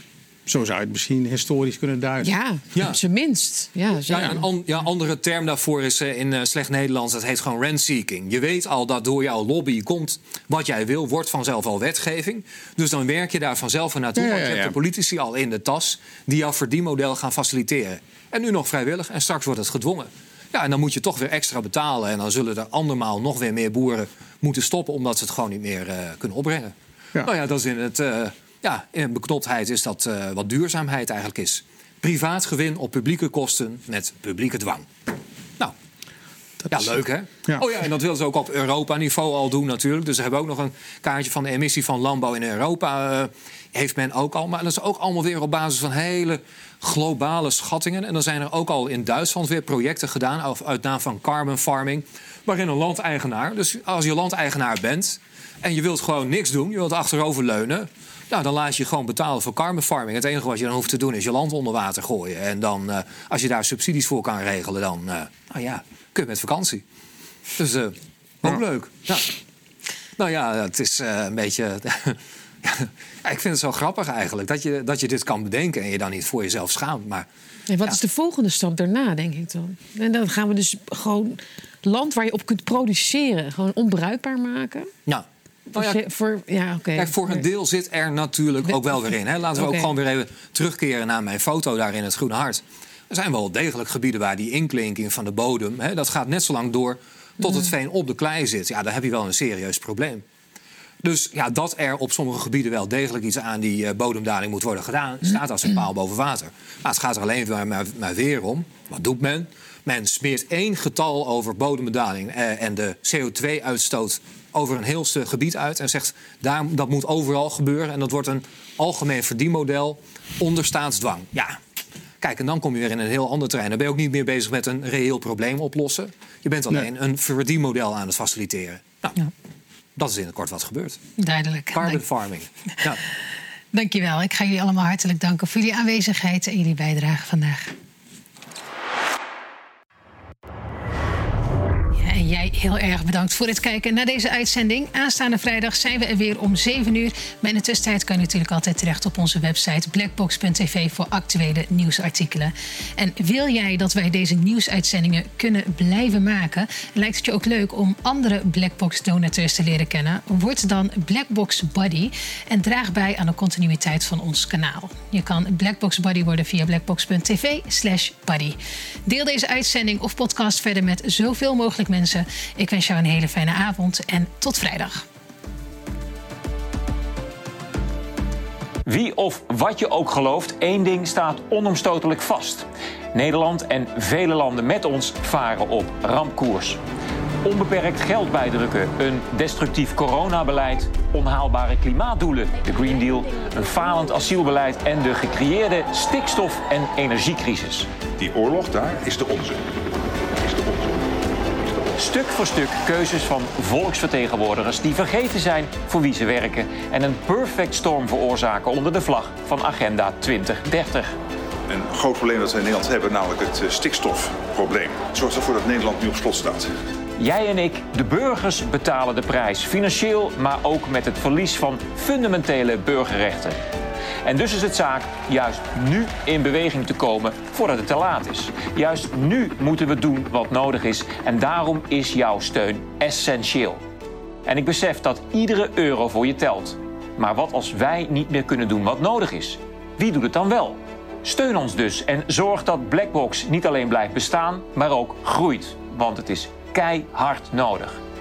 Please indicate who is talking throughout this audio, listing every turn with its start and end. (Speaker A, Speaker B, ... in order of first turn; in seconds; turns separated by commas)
Speaker A: 0.5-2.3, Speaker B: 2.2-4.4, Speaker C: 4.1-34.9, Speaker A: 14.2-14.8, Speaker A: 36.6-37.6, Speaker C: 36.7-66.8, Speaker C: 67.6-69.3, Speaker C: 70.2-77.3, Speaker B: 77.7-84.9, Speaker C: 85.1-86.0, Speaker B: 85.7-87.4, Speaker C: 87.0-100.2, Speaker B: 89.5-89.9, Speaker B: 97.4-97.7, Speaker C: 101.0-121.6, Speaker C: 122.2-129.2, Speaker C: 130.0-131.0, Speaker D: 131.2-132.0, Speaker C: 131.7-133.0, Speaker D: 133.7-137.7, Speaker D: 142.0-175.1, Speaker E: 178.8-186.8, Speaker E: 187.4-197.9, Speaker F: 198.2-199.7, Speaker F: 200.4-201.1, Speaker E: 202.0-211.1, Speaker F: 211.7-216.7, Speaker E: 217.2-223.6, Speaker E: 224.2-233.8, Speaker E: 234.4-248.0